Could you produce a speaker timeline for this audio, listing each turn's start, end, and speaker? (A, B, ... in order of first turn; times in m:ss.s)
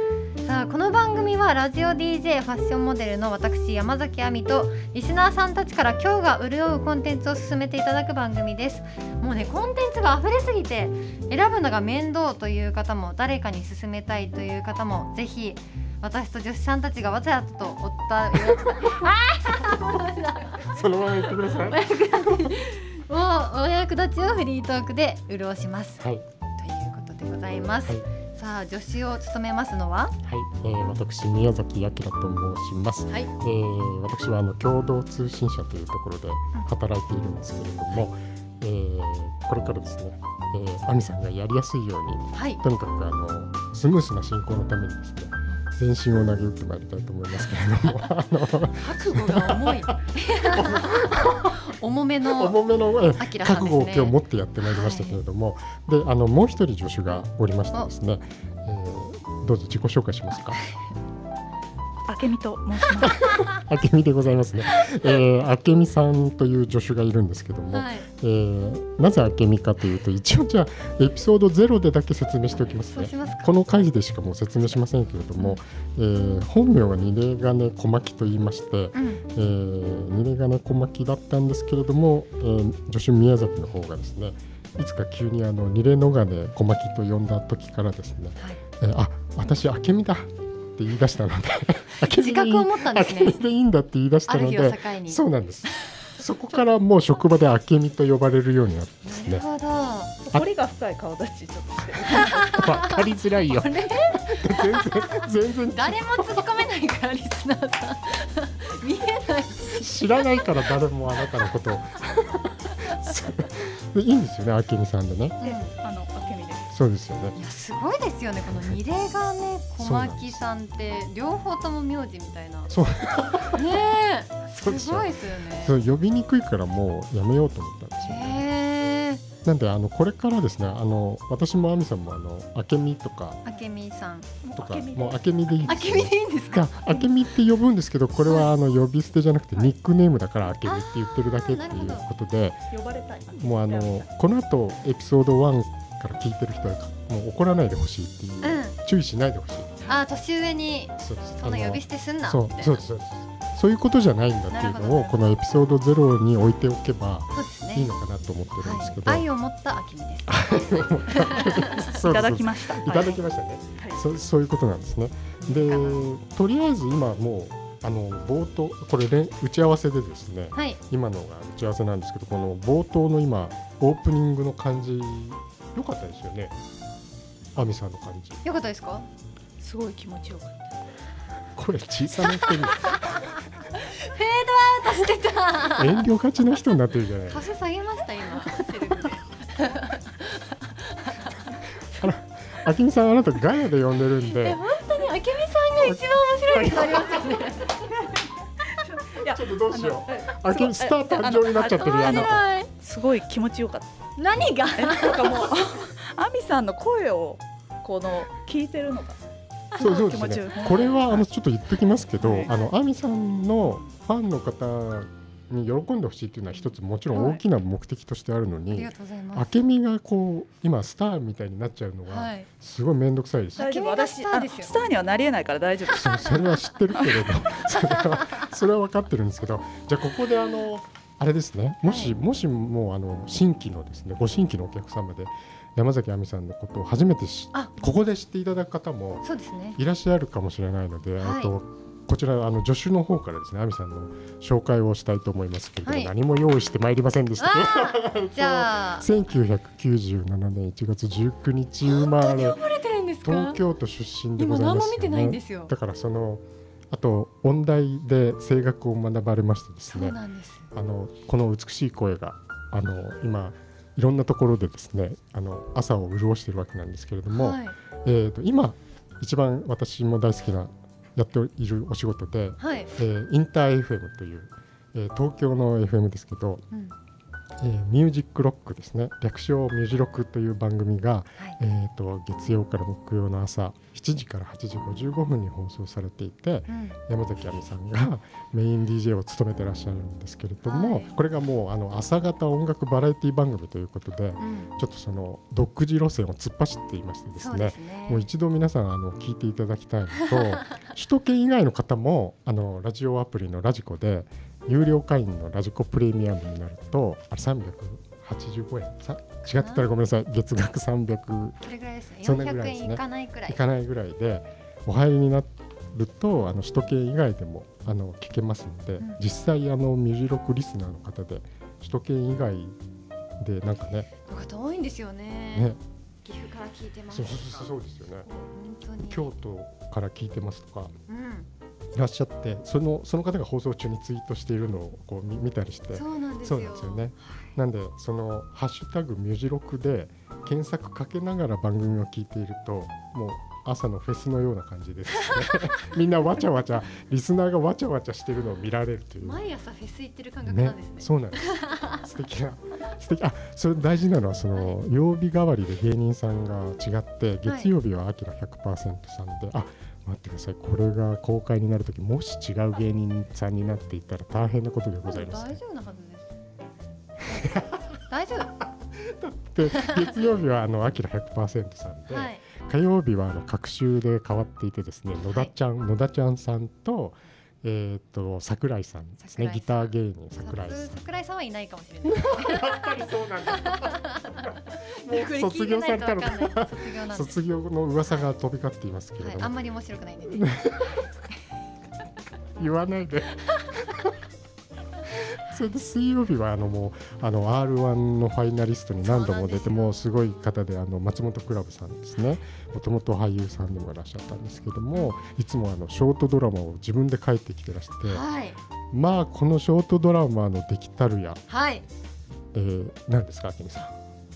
0:00.4-0:26.0 A
0:18.6-0:19.1 B
0:20.6-0:22.6 B
0:26.0-0:26.2 B
0:26.6-0:30.2 A
0:30.2-0:51.7 B
0:42.3-0:42.6 A
0:48.8-0:52.6 A
0:52.2-1:00.6 B
0:53.2-0:55.2 A
1:02.1-1:03.2 C
1:03.0-1:39.4 B
1:07.7-1:08.1 A
1:12.9-1:13.5 A
1:18.9-1:19.2 A
1:32.0-1:33.4 A
1:34.3-1:35.2 A
1:39.0-1:40.2 A
1:40.2-1:42.7 C
1:42.1-1:45.2 A
1:42.5-1:46.5 B
1:45.7-1:50.0 A
1:49.6-1:55.6 B
1:55.4-1:55.7 A
1:55.7-1:56.7 C
1:56.7-1:57.4 B
1:57.4-2:02.7 A
1:59.8-2:00.4 B
2:02.7-2:03.7 B
2:03.5-2:05.8 A
2:04.5-2:08.5 B
2:08.0-2:09.2 A
2:09.4-2:13.4 B
2:13.4-2:14.3 A
2:14.4-2:15.2 C
2:14.5-2:22.6 B
2:15.6-2:16.7 A
2:16.8-2:17.2 C
2:18.2-2:18.5 A
2:20.6-2:22.0 A
2:22.7-2:24.1 C
2:23.3-2:29.8 B
2:28.4-2:28.7 A
2:29.9-2:32.8 A
2:31.0-2:39.3 B
2:34.5-2:35.4 A
2:37.3-2:37.9 A
2:38.6-2:41.8 A
2:40.3-2:56.6 B
2:41.8-2:43.2 C
2:45.4-2:46.0 A
2:50.5-2:50.8 A
2:57.5-2:58.4 B
2:58.4-2:59.1 A
2:59.6-3:00.8 C
3:01.5-3:03.2 B
3:02.4-3:03.2 A
3:03.8-3:06.0 A
3:05.6-3:07.5 B
3:07.3-3:10.1 A
3:10.9-3:11.3 A
3:11.9-3:14.6 B
3:14.3-3:17.8 A
3:15.8-3:17.5 B
3:17.6-3:24.0 C
3:19.2-3:22.4 B
3:21.8-3:22.7 A
3:24.2-3:25.5 A
3:24.7-3:29.2 C
3:29.7-3:31.3 C
3:29.8-3:43.6 B
3:32.2-3:32.7 A
3:32.2-3:32.5 C
3:33.6-3:33.9 C
3:37.1-3:37.4 C
3:38.7-3:39.6 A
3:42.1-3:42.5 A
3:43.6-3:44.7 A
3:43.6-3:47.5 C
3:45.9-3:59.2 B
3:51.8-3:52.1 A
3:57.5-3:57.8 A
3:59.2-3:59.8 A
3:59.8-4:12.6 B
4:01.2-4:01.5 A
4:05.8-4:06.1 A
4:07.4-4:09.1 A
4:11.8-4:13.6 A
4:13.2-4:20.2 B
4:14.4-4:15.7 A
4:19.9-4:20.7 A
4:20.7-4:36.6 B
4:27.3-4:27.8 A
4:32.6-4:32.9 A
4:37.6-5:11.6 B
4:46.7-4:47.0 A
4:50.6-4:51.2 A
4:54.4-4:54.7 A
4:57.4-4:58.3 A
5:09.4-5:09.9 A
5:11.6-5:13.6 A
5:12.2-5:22.8 B
5:23.4-5:24.1 B
5:24.2-5:27.7 A
5:25.5-5:25.8 B
5:27.1-5:28.3 B
5:28.5-5:29.3 A
5:29.0-5:30.9 B
5:31.1-5:31.5 A
5:31.9-5:49.4 B
5:35.9-5:37.5 A
5:49.2-5:52.1 A
5:50.4-6:05.6 B
5:57.4-5:57.7 A
6:05.0-6:06.3 A
6:07.2-6:08.6 A
6:07.3-6:07.8 B
6:08.6-6:21.0 B
6:12.1-6:12.4 A
6:19.2-6:19.7 A
6:20.4-6:22.9 A
6:22.0-6:29.5 B
6:23.5-6:27.4 A
6:29.2-6:30.6 A
6:30.3-6:31.0 B
6:32.6-6:34.2 B
6:35.1-6:48.2 B
6:39.0-6:40.2 A
6:48.0-6:48.6 A
6:48.9-6:51.4 B
6:51.5-6:51.8 A
6:52.5-6:54.0 B